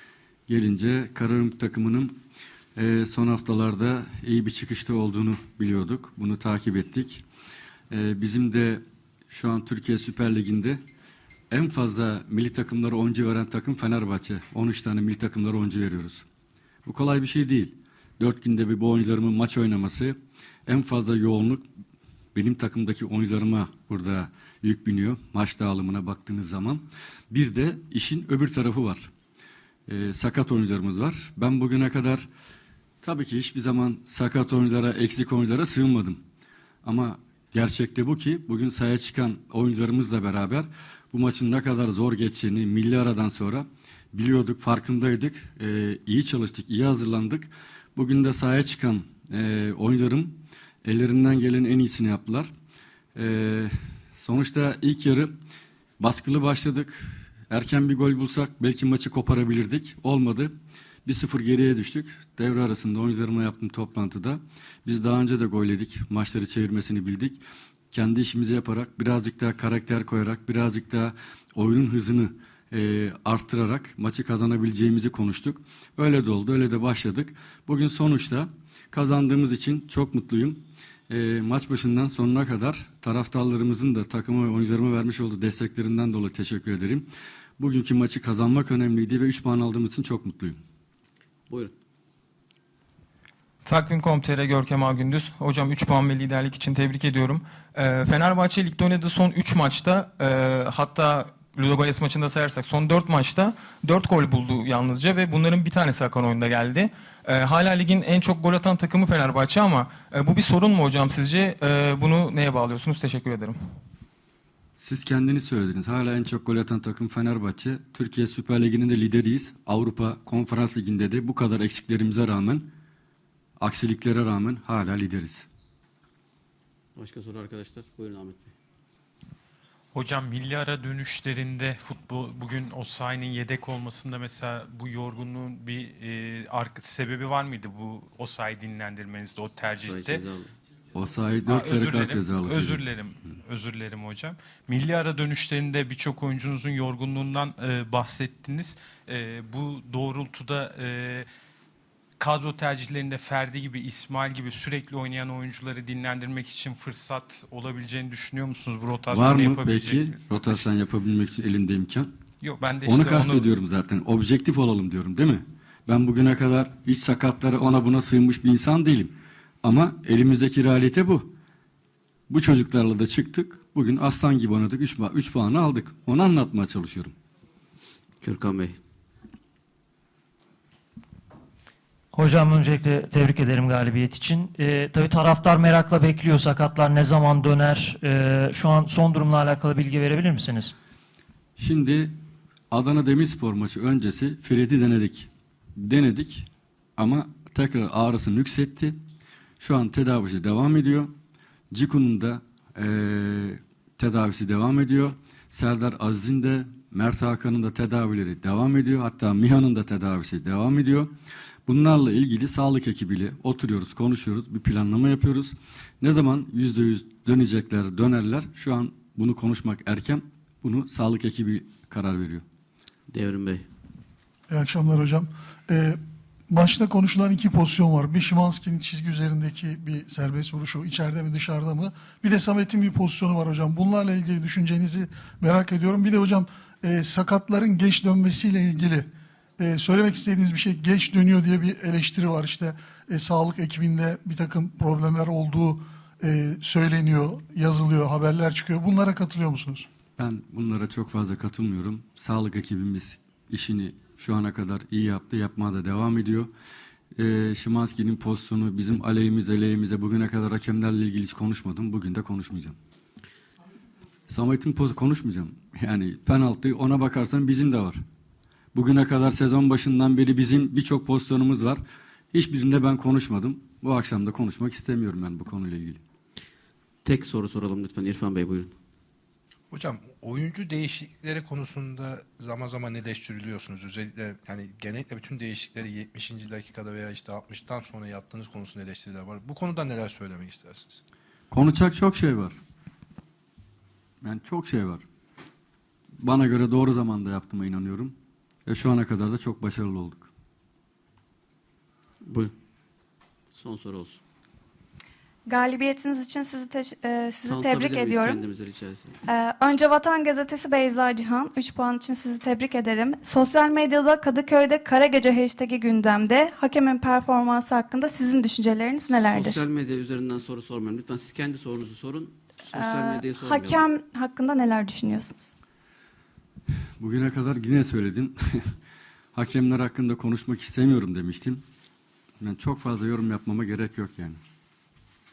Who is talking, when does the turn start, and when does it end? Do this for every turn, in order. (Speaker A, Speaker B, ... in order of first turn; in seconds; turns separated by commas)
Speaker A: 0.5-2.1, Speaker A: 2.8-7.2, Speaker A: 7.9-10.8, Speaker A: 11.5-16.3, Speaker A: 16.9-20.2, Speaker A: 20.7-21.6, Speaker A: 22.4-29.1, Speaker A: 29.9-32.3, Speaker A: 33.0-36.2, Speaker A: 36.8-52.5, Speaker A: 53.1-55.3, Speaker A: 56.0-60.5, Speaker A: 61.1-67.4, Speaker A: 67.9-87.1, Speaker A: 87.6-90.6, Speaker B: 93.7-113.6, Speaker A: 114.8-122.7, Speaker A: 123.6-125.5, Speaker C: 127.0-128.6, Speaker D: 129.9-140.2, Speaker C: 139.8-140.5, Speaker A: 140.9-142.8, Speaker D: 141.5-151.3, Speaker D: 152.2-160.7, Speaker A: 159.1-162.1, Speaker D: 162.4-163.5, Speaker A: 162.8-171.3, Speaker A: 172.3-177.1, Speaker C: 178.2-178.8, Speaker E: 182.1-190.7, Speaker A: 191.6-192.1, Speaker A: 192.7-199.0, Speaker A: 199.6-201.1, Speaker A: 201.7-211.1, Speaker A: 211.7-222.4, Speaker C: 223.1-223.7, Speaker F: 224.5-226.0, Speaker F: 226.5-239.1, Speaker F: 239.6-249.9, Speaker A: 250.2-256.5, Speaker A: 257.2-262.8, Speaker A: 264.3-268.0, Speaker A: 268.7-276.0, Speaker C: 277.0-278.8, Speaker G: 279.7-291.0, Speaker A: 291.5-292.6, Speaker A: 294.2-295.0, Speaker A: 296.2-298.1, Speaker A: 298.7-300.3, Speaker C: 302.2-302.5, Speaker C: 303.5-304.2, Speaker H: 305.5-308.5, Speaker C: 307.5-309.2, Speaker H: 309.3-319.7, Speaker C: 319.1-323.8, Speaker H: 322.7-325.5, Speaker A: 327.0-328.7, Speaker A: 329.3-331.6, Speaker A: 332.4-334.4